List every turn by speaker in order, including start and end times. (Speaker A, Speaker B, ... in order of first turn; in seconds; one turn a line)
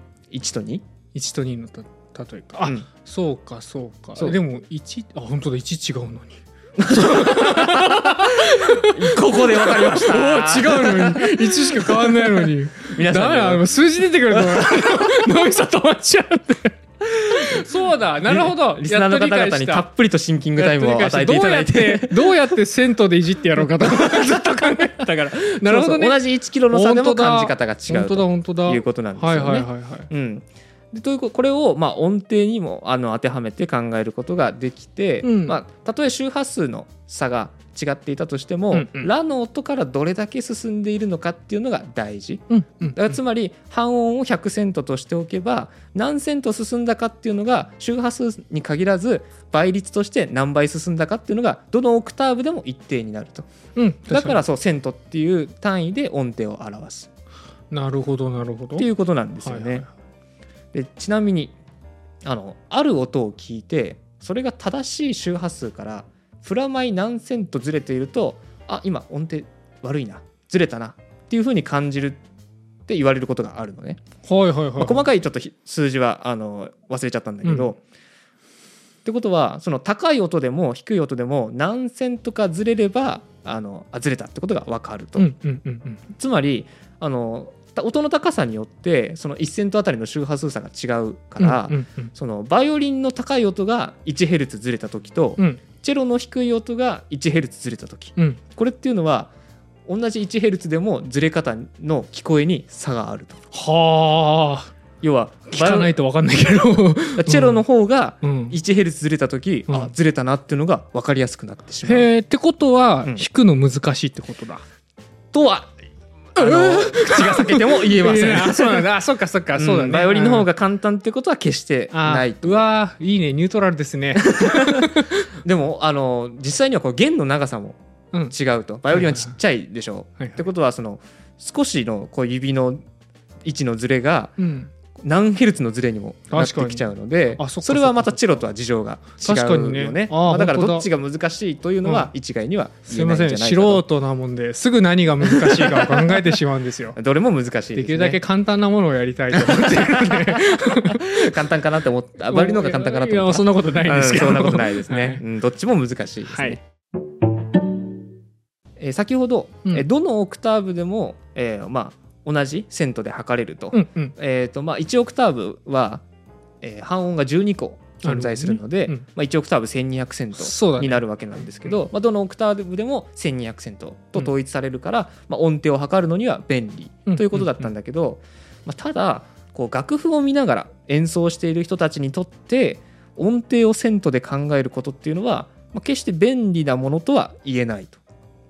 Speaker A: 0.3-0.8
Speaker B: 1.1-16.8
Speaker A: 6.8-13.7
Speaker A: 14.3-15.3
Speaker A: 17.1-17.7
Speaker B: 17.3-19.9
Speaker A: 18.2-22.5
Speaker B: 20.6-30.1
Speaker A: 23.6-53.5
Speaker B: 35.2-35.6
Speaker B: 38.7-39.1
Speaker B: 42.5-43.2
Speaker B: 53.8-54.4
Speaker A: 54.1-57.1
Speaker B: 57.7-58.9
Speaker A: 58.8-59.9
Speaker B: 59.4-59.9
Speaker A: 60.7-61.5
Speaker A: 62.2-72.2
Speaker A: 72.9-74.0
Speaker B: 74.2-75.0
Speaker A: 74.8-77.8
Speaker B: 77.4-77.7
Speaker A: 79.0-85.3
Speaker B: 85.2-86.0
Speaker A: 86.1-99.3
Speaker B: 91.4-92.1
Speaker A: 99.9-103.4
Speaker B: 103.5-104.7
Speaker A: 105.0-105.9
Speaker B: 105.5-107.6
Speaker A: 107.2-112.1
Speaker B: 108.2-108.6
Speaker B: 111.8-114.6
Speaker A: 115.3-115.7
Speaker A: 116.3-118.9
Speaker B: 116.4-120.5
Speaker A: 119.5-122.7
Speaker B: 121.9-125.3
Speaker A: 124.2-127.8
Speaker A: 128.3-132.8
Speaker B: 128.9-129.3
Speaker A: 133.4-134.4
Speaker B: 134.4-134.7
Speaker A: 135.0-143.8
Speaker B: 136.3-138.4
Speaker B: 139.2-140.9
Speaker B: 141.8-142.1
Speaker B: 142.9-147.0
Speaker A: 145.3-146.3
Speaker A: 147.0-148.2
Speaker B: 147.8-151.4
Speaker A: 149.4-156.6
Speaker B: 152.3-155.2
Speaker B: 156.3-156.6
Speaker A: 158.8-166.0
Speaker B: 163.7-164.1
Speaker A: 166.6-188.0
Speaker B: 168.0-169.0
Speaker B: 170.4-171.0
Speaker B: 177.1-177.7